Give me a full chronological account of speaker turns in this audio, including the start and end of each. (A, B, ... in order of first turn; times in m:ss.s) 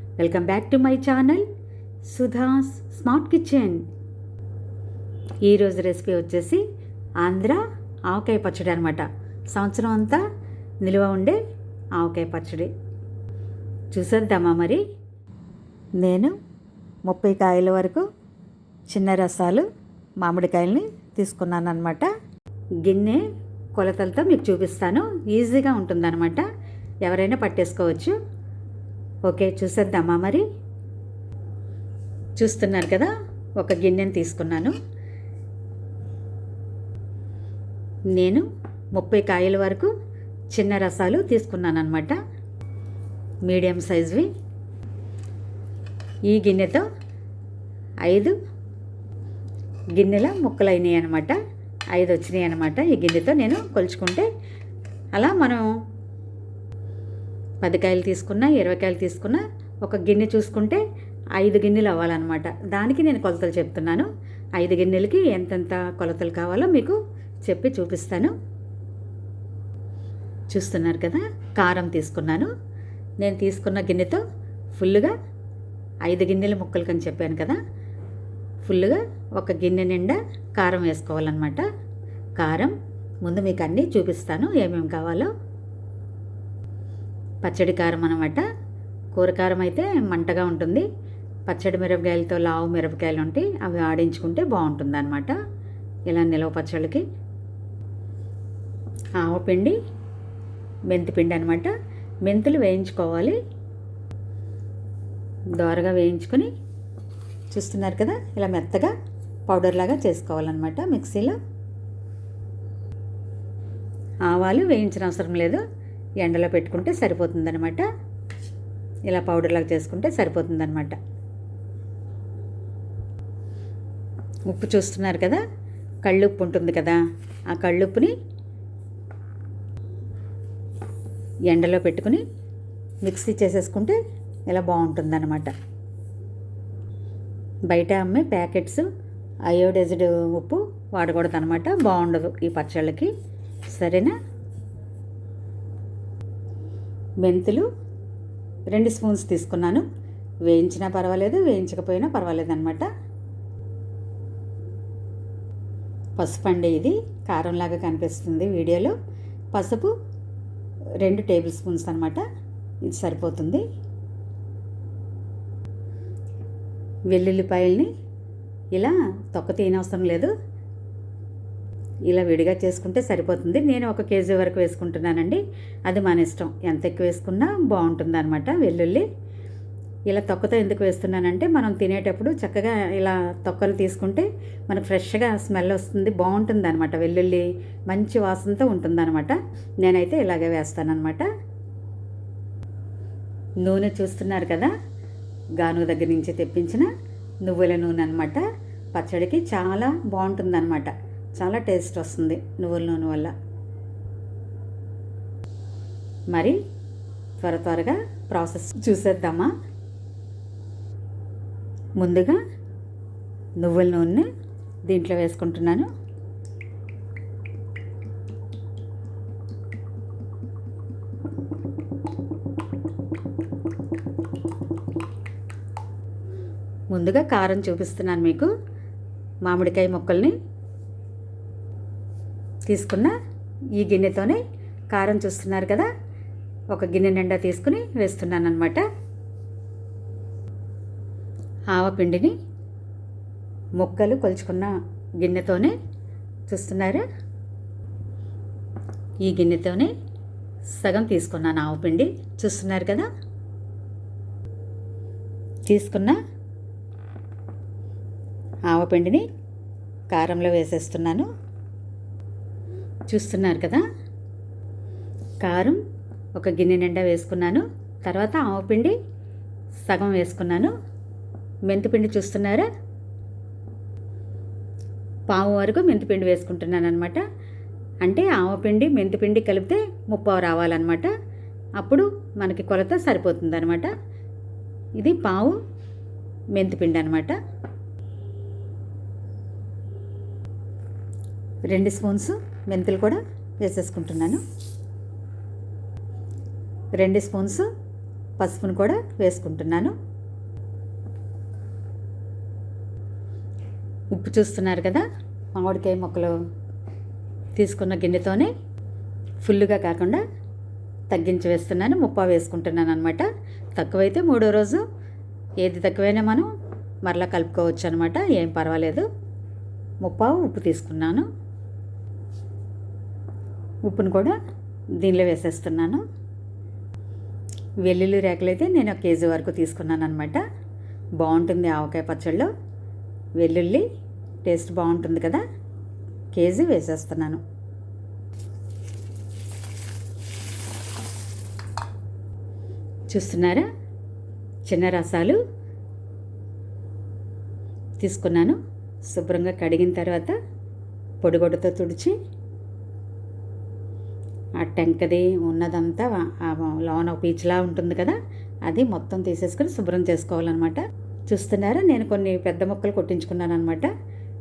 0:00.2-0:01.4 A
0:02.0-0:03.8 A
0:05.4-0:06.6 A
0:07.2-0:10.2 A
0:10.8-0:11.4 A
0:12.0-0:12.7 A
0:13.9-0:14.8 A
0:16.0-0:16.4 A
0:17.0-0:18.1 A
0:18.9-0:19.7 A
0:20.2-0:22.1 A
0:22.8-0:23.2 A
0:23.7-0:26.4 A
0:27.0-0:28.2 A
0:29.2-0:30.4 A
0:32.4-0:34.7 A
0:38.1-0:39.9 A
0:40.5-0:42.2 A
0:43.4-0:44.3 A
0:46.3-0:46.9 A
0:48.0-0:48.4 A
0:50.0-0:51.4 A
0:51.9-0:54.3 A
0:55.1-0:55.6 A
0:57.6-1:00.8 A
1:01.4-1:08.3 A
1:10.5-1:12.5 A
1:13.2-1:14.2 A
1:14.7-1:15.1 A
1:16.0-1:17.6 A
1:18.6-1:21.6 A
1:22.4-1:25.3 A
1:27.4-1:28.4 A
1:29.1-1:30.9 A
1:31.5-1:35.4 A
1:36.1-1:37.0 A
1:39.2-1:39.8 A
1:40.9-1:41.7 A
1:42.2-1:43.4 A
1:45.6-1:46.5 A
1:47.5-1:48.9 A
1:49.5-1:51.4 A
1:54.3-1:55.6 A
1:56.2-1:57.8 A
1:59.1-2:01.0 A
2:04.5-2:05.4 A
2:06.0-2:08.1 A
2:11.5-2:12.2 A
2:13.0-2:15.5 A
2:17.7-2:18.9 A
2:19.5-2:23.1 A
2:23.7-2:24.2 A
2:27.2-2:27.7 A
2:28.7-2:29.8 A
2:30.4-2:32.9 A
2:36.2-2:38.9 A
2:39.5-2:39.9 A
2:41.0-2:42.2 A
2:42.8-2:43.6 A
2:47.1-2:47.9 A
2:48.7-2:50.3 A
2:52.1-2:59.0 A
3:00.1-3:11.3 A
3:13.6-3:14.7 A
3:15.6-3:16.9 A
3:17.4-3:18.4 A
3:18.9-3:23.3 A
3:26.3-3:26.6 A
3:27.4-3:29.5 A
3:32.0-3:32.4 A
3:33.6-3:34.3 A
3:34.8-3:35.9 A
3:46.9-3:48.5 A
3:49.4-3:50.3 A
3:52.6-3:53.1 A
3:53.8-3:55.9 A
3:56.7-3:58.8 A
4:01.7-4:02.4 A
4:03.8-4:05.8 A
4:06.5-4:07.0 A
4:09.2-4:09.9 A
4:10.7-4:13.1 A
4:15.6-4:16.2 A
4:18.7-4:19.2 A
4:20.1-4:21.3 A
4:23.1-4:23.8 A
4:25.4-4:25.8 A
4:26.4-4:29.0 A
4:29.8-4:30.7 A
4:31.6-4:32.7 A
4:35.3-4:37.2 A
4:38.0-4:41.1 A
4:41.8-4:43.9 A
4:45.0-4:45.6 A
4:46.5-4:47.4 A
4:51.7-4:54.4 A
4:57.0-4:57.7 A
4:58.4-4:59.9 A
5:04.1-5:06.4 A
5:07.6-5:08.5 A
5:09.4-5:10.2 A
5:11.1-5:14.8 A
5:15.6-5:16.5 A
5:17.0-5:19.0 A
5:20.0-5:21.3 A
5:23.8-5:24.4 A
5:25.0-5:26.0 A
5:27.8-5:30.4 A
5:31.2-5:32.5 A
5:33.4-5:33.8 A
5:34.4-5:35.4 A
5:36.3-5:37.4 A
5:43.1-5:43.7 A
5:44.6-5:45.4 A
5:48.0-5:50.4 A
5:51.2-5:52.1 A
5:54.6-6:03.9 A